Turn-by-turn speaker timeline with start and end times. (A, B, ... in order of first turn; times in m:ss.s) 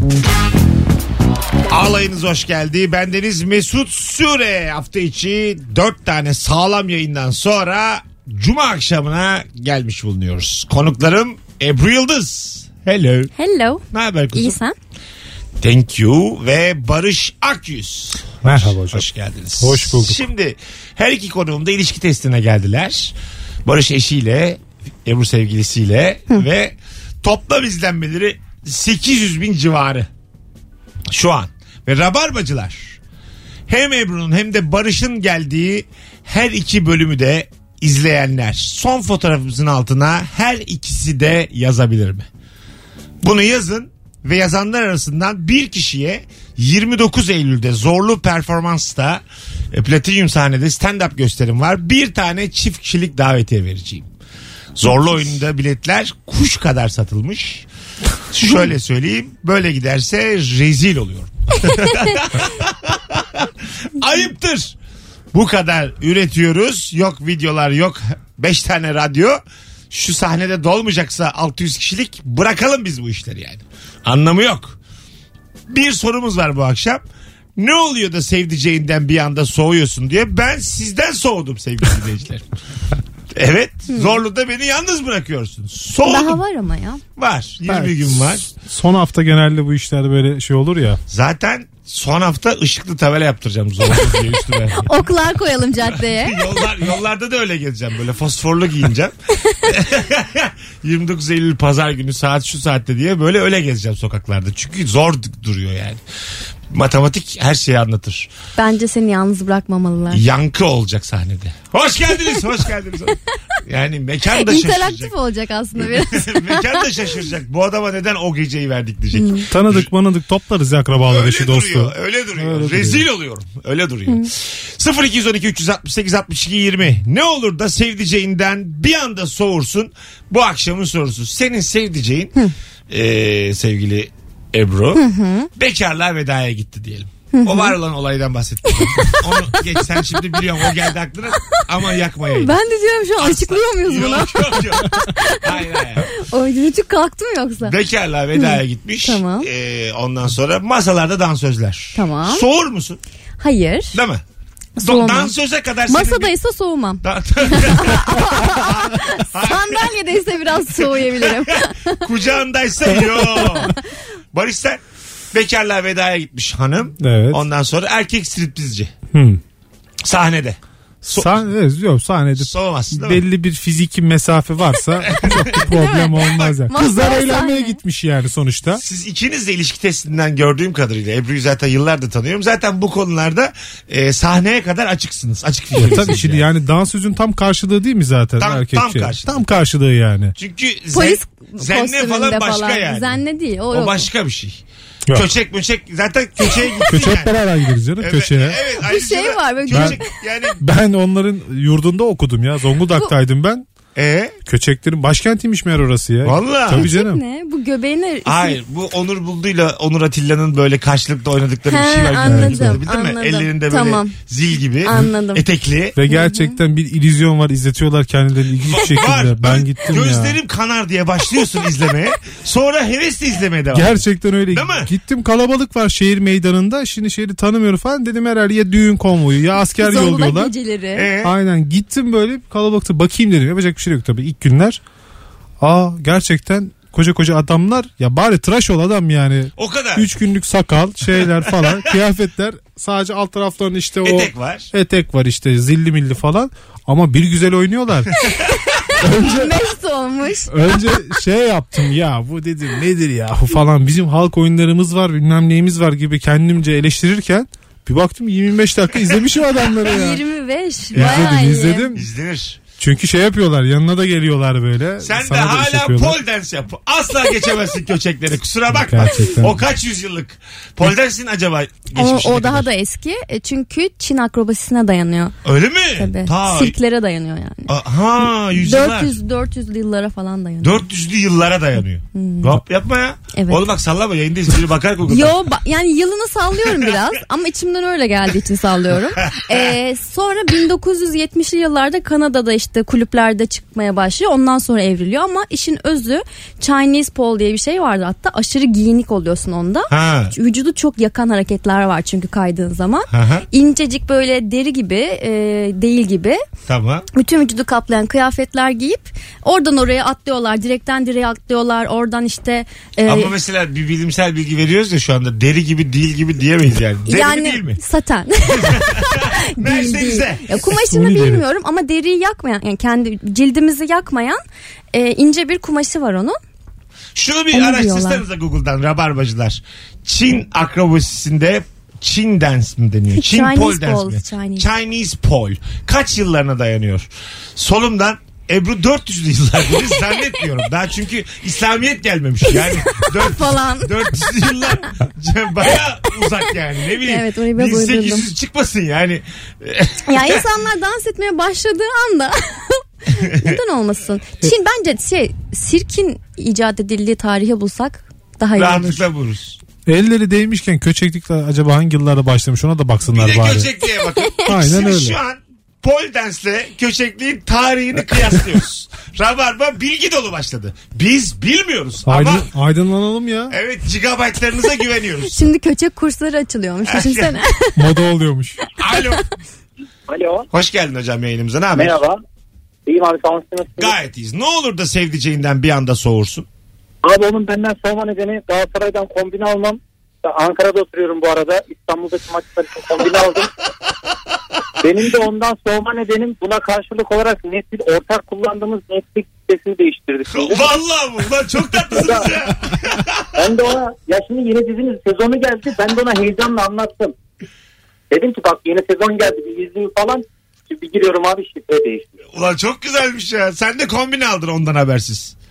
0:01.7-0:13.3 A
0:13.4-0:14.7 B
0:13.9-0:14.6 A
0:15.6-0:30.1 A
0:18.4-0:19.0 C
0:19.6-0:20.2 C
0:31.1-0:33.0 A
0:33.7-0:42.3 A
0:43.2-0:54.1 A
0:54.8-0:57.7 A
0:58.3-1:04.8 A
1:05.3-1:14.8 A
1:15.7-1:17.0 A
1:17.6-1:22.4 A
1:23.3-1:26.4 A
1:26.0-1:27.0 B
1:27.2-1:28.4 A
1:27.7-1:31.0 C
1:31.1-1:34.9 A
1:34.0-1:36.4 B
1:35.8-1:39.1 A
1:39.6-1:46.0 A
1:46.7-1:48.3 A
1:48.6-1:50.2 B
1:50.1-1:55.1 A
1:54.3-1:56.9 B
1:55.8-1:59.9 A
1:59.1-1:59.5 B
1:59.5-2:03.0 C
2:01.1-2:12.3 A
2:12.9-2:15.0 A
2:15.0-2:15.5 B
2:15.6-2:22.6 A
2:17.3-2:17.8 B
2:18.7-2:20.7 B
2:22.2-2:27.8 B
2:23.2-2:26.1 A
2:27.6-2:33.0 A
2:28.4-2:29.5 B
2:32.0-2:32.4 B
2:33.4-2:34.0 B
2:33.9-2:34.2 A
2:34.8-2:35.3 B
2:34.8-2:36.3 A
2:35.9-2:42.0 B
2:37.0-2:39.9 A
2:40.8-2:43.8 A
2:43.3-2:43.8 B
2:44.3-2:48.9 A
2:47.0-2:47.4 C
2:49.1-2:49.4 C
2:50.0-2:51.4 A
2:51.0-2:58.8 C
2:52.4-2:53.2 A
2:55.0-2:55.6 A
2:55.5-2:57.8 B
2:56.2-2:56.5 A
2:58.8-3:06.5 A
3:05.7-3:10.3 C
3:08.4-3:09.6 A
3:10.4-3:13.2 A
3:10.9-3:14.1 B
3:13.7-3:14.6 A
3:15.1-3:17.3 A
3:16.9-3:18.6 C
3:18.0-3:20.6 A
3:18.8-3:20.1 B
3:19.7-3:20.0 C
3:20.6-3:23.6 C
3:24.0-3:24.4 A
3:24.5-3:27.2 C
3:26.2-3:26.9 A
3:26.7-3:28.6 B
3:28.2-3:36.0 A
3:31.7-3:34.2 B
3:32.2-3:32.8 C
3:34.8-3:35.4 B
3:36.0-3:40.4 C
3:36.1-3:36.6 B
3:38.7-3:44.9 A
3:43.7-3:50.5 C
3:49.7-3:51.1 B
3:51.0-3:51.3 A
3:51.2-3:54.8 C
3:55.6-4:08.1 C
3:59.6-4:00.1 A
4:01.3-4:01.9 A
4:04.0-4:04.7 A
4:09.0-4:09.6 C
4:09.0-4:10.7 B
4:10.5-4:20.2 C
4:19.8-4:21.9 B
4:20.9-4:21.4 A
4:21.0-4:22.0 C
4:21.9-4:22.6 A
4:22.8-4:26.2 C
4:25.0-4:32.7 A
4:28.7-4:29.6 C
4:32.0-4:35.4 B
4:35.4-4:36.8 A
4:36.0-4:37.7 B
4:37.7-4:39.2 A
4:38.5-4:40.8 B
4:40.6-4:45.4 A
4:42.2-4:42.6 B
4:43.3-4:43.6 B
4:45.1-5:06.4 B
4:49.2-4:49.8 A
4:59.9-5:00.4 A
5:03.1-5:03.5 A
5:06.7-5:07.0 A
5:07.1-5:13.3 B
5:13.0-5:17.8 A
5:17.1-5:24.4 B
5:18.5-5:20.6 A
5:20.9-5:21.4 C
5:24.9-5:26.4 B
5:27.2-5:50.5 A
5:27.5-5:28.2 B
5:33.2-5:34.7 B
5:40.1-5:40.3 B
5:42.5-5:44.5 B
5:47.0-5:48.3 B
5:50.1-5:59.0 B
5:53.2-5:53.6 A
5:58.6-5:59.6 A
5:59.9-6:03.7 C
6:03.1-6:12.5 A
6:04.4-6:05.2 C
6:12.1-6:13.6 C
6:13.5-6:15.5 A
6:15.3-6:17.8 B
6:16.8-6:17.4 A
6:17.8-6:18.6 C
6:18.8-6:19.2 A
6:20.1-6:20.5 D
6:20.5-6:22.0 A
6:21.7-6:22.2 D
6:22.9-6:24.0 D
6:23.8-6:26.5 A
6:27.0-6:33.5 D
6:34.8-6:40.8 D
6:40.3-6:43.3 A
6:41.9-6:42.3 D
6:43.4-6:47.2 D
6:48.1-6:52.1 D
6:52.3-6:55.4 A